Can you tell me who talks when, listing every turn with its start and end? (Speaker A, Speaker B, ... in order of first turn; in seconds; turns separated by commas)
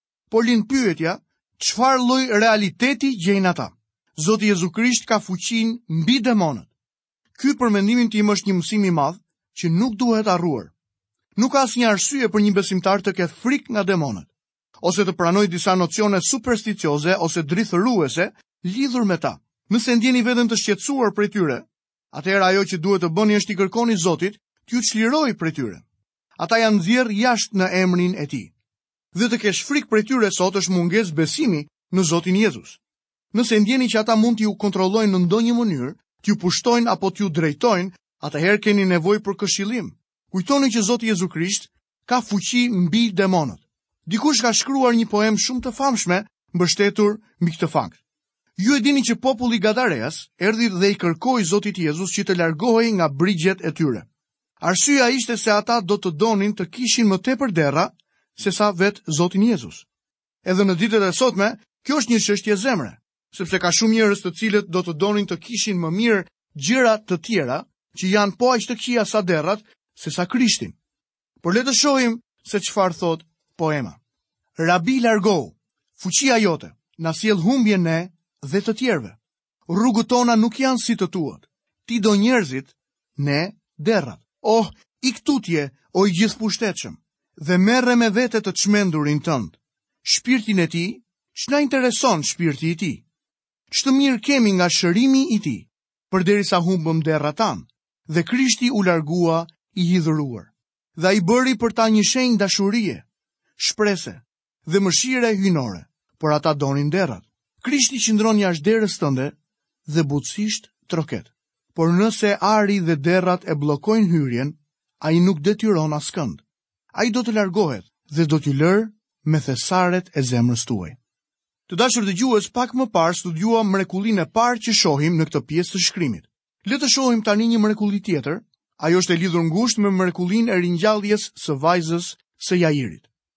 Speaker A: 0.3-6.7, Speaker A: 7.3-10.7, Speaker A: 11.3-14.3, Speaker A: 14.8-25.8, Speaker A: 26.4-28.5, Speaker A: 29.1-32.8, Speaker A: 33.3-48.0, Speaker A: 48.6-54.0, Speaker A: 54.6-59.9, Speaker A: 60.4-70.8, Speaker A: 71.4-74.0, Speaker A: 74.6-93.0, Speaker A: 93.7-103.0, Speaker A: 103.6-109.3, Speaker A: 109.9-116.4, Speaker A: 116.9-121.0, Speaker A: 121.7-133.1